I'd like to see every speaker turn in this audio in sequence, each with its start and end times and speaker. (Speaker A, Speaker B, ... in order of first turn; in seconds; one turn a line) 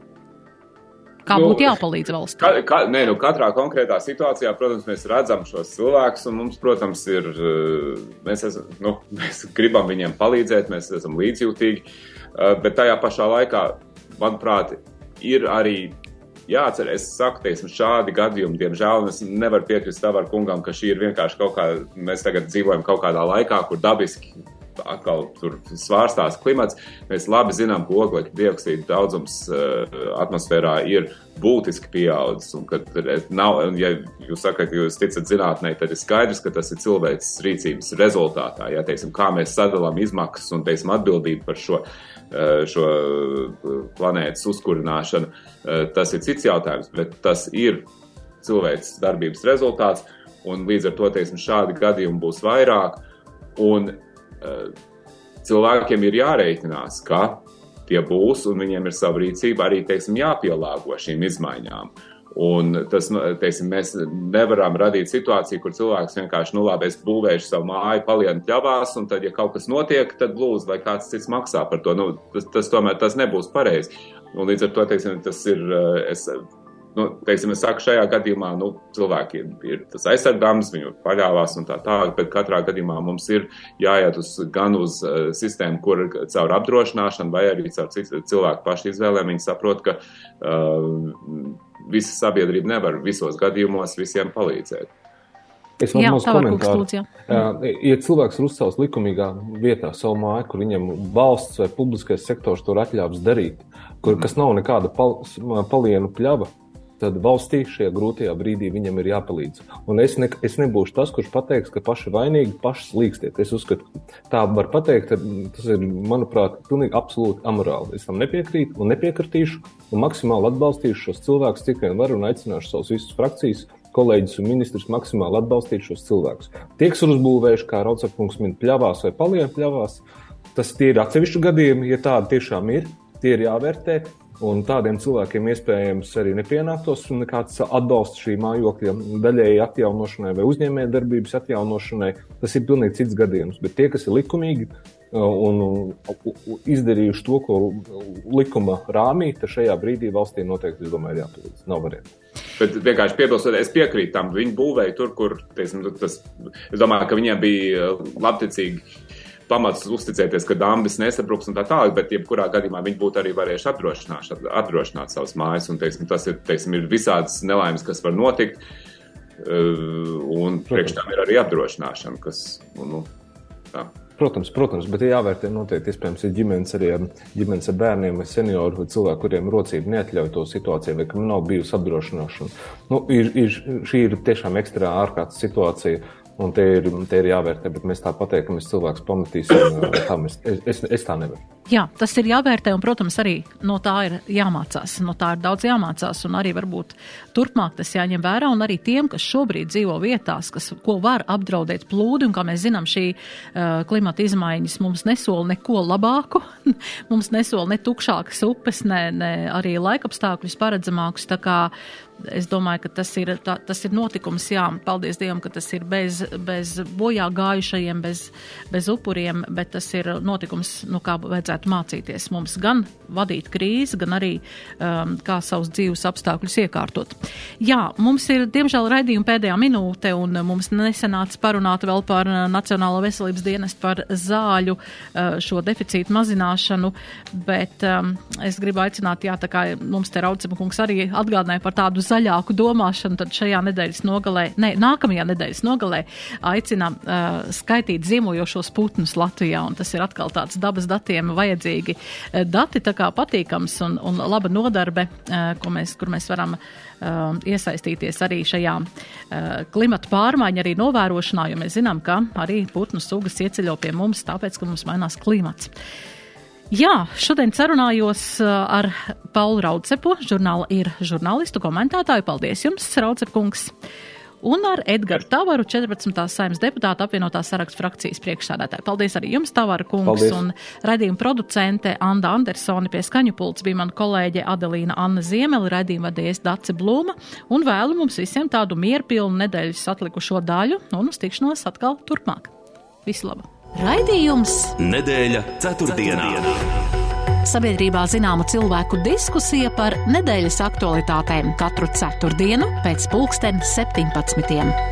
Speaker A: 1.2-2.6
Speaker B: 1.3-1.8
Speaker B: 2.4-47.9
Speaker B: 48.4-53.0
Speaker B: 53.5-54.7
Speaker B: 55.4-76.4
Speaker B: 76.9-94.9
Speaker C: 95.8-130.0
Speaker A: 95.9-97.3
Speaker C: 130.5-152.1
Speaker B: 152.6-158.8
Speaker B: 159.5-168.6
Speaker B: 169.4-173.1
Speaker C: 170.7-171.0
Speaker C: 174.2-191.4
Speaker A: 191.7-211.7
Speaker A: 212.2-265.7
Speaker A: 266.7-273.7
Speaker A: 274.4-292.5
Speaker C: 280.0-280.4
Speaker A: 293.0-294.7
Speaker D: 294.8-296.9
Speaker A: 297.4-304.8